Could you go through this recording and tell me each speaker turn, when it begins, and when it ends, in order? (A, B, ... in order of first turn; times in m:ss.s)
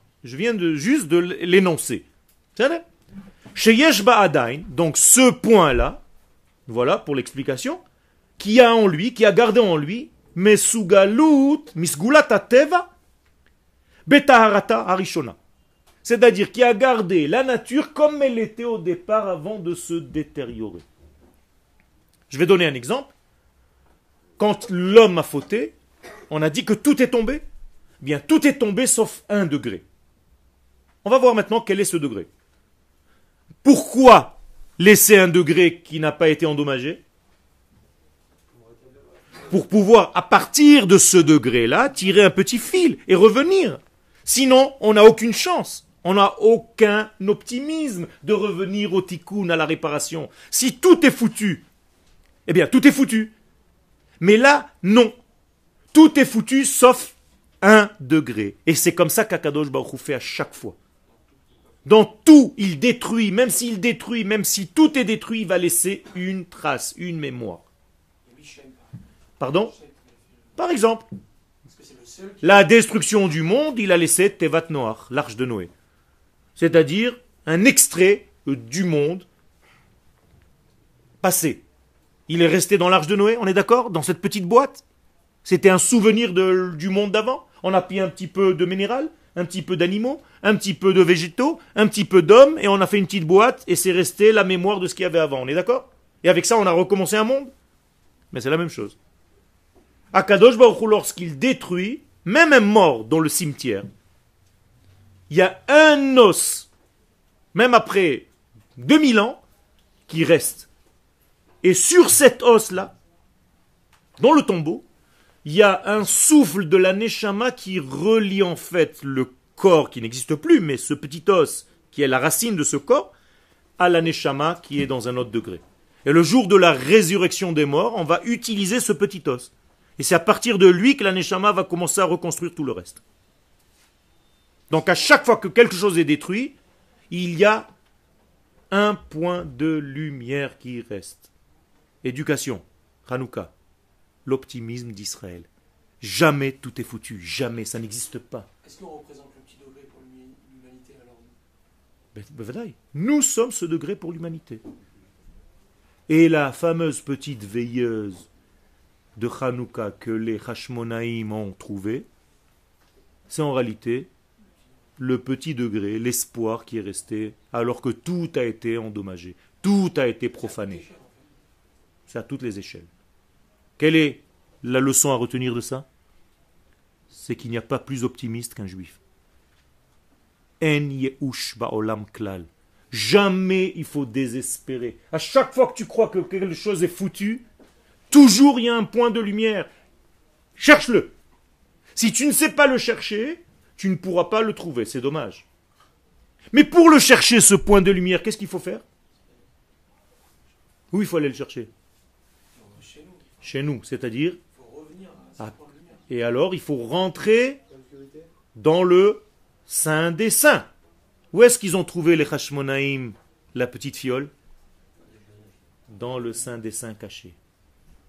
0:00.2-0:02.8 A
0:03.6-0:06.0 A
0:06.7-0:07.8 A
0:08.4-0:12.9 A
0:14.1-0:15.4 A
0:16.0-0:20.8 A
0:22.3-0:23.1 A
0:24.4-0:25.8 A
0:26.3-0:27.4 A
0:28.0-0:29.8 A
0:31.0-0:32.3 A
0:33.6-0:37.0 A
0:39.5-0:51.6 A
0:52.5-0:53.3 A
0:54.2-0:55.2 A
0:55.9-1:00.8 A
1:01.8-1:07.6 A
1:08.2-1:10.4 B
1:09.4-1:09.7 A
1:10.6-1:11.1 A
1:11.6-1:12.7 B
1:12.4-1:15.7 A
1:16.6-1:19.3 A
1:21.2-1:21.6 A
1:22.3-1:24.8 A
1:25.4-1:37.5 A
1:38.3-1:39.0 A
1:40.1-1:43.9 A
1:45.3-1:46.7 A
1:47.5-1:49.4 A
1:50.1-1:50.7 A
1:51.6-1:52.9 A
1:54.2-1:54.8 A
1:55.4-2:03.1 A
2:03.8-2:13.0 A
2:14.7-2:16.6 A
2:17.1-2:17.7 A
2:18.7-2:21.3 A
2:22.0-2:23.5 A
2:24.2-2:25.5 A
2:26.0-2:28.5 A
2:28.6-2:31.4 B
2:32.1-2:34.6 A
2:36.1-2:38.3 A
2:39.2-2:42.1 A
2:43.3-2:44.1 A
2:45.0-2:50.8 A
2:50.4-2:51.4 B
2:52.1-2:52.9 A
2:53.8-2:55.9 A
2:57.1-2:59.0 A
3:00.6-3:07.4 A
3:08.1-3:09.7 A
3:10.6-3:11.1 A
3:12.0-3:15.4 A
3:16.5-3:18.8 A
3:20.9-3:21.7 A
3:22.5-3:23.4 B
3:23.4-3:24.4 A
3:24.5-3:26.0 B
3:26.1-3:27.6 A
3:27.7-3:28.3 B
3:28.6-3:30.7 A
3:31.3-3:34.3 A
3:35.0-3:35.5 B
3:35.9-3:37.4 A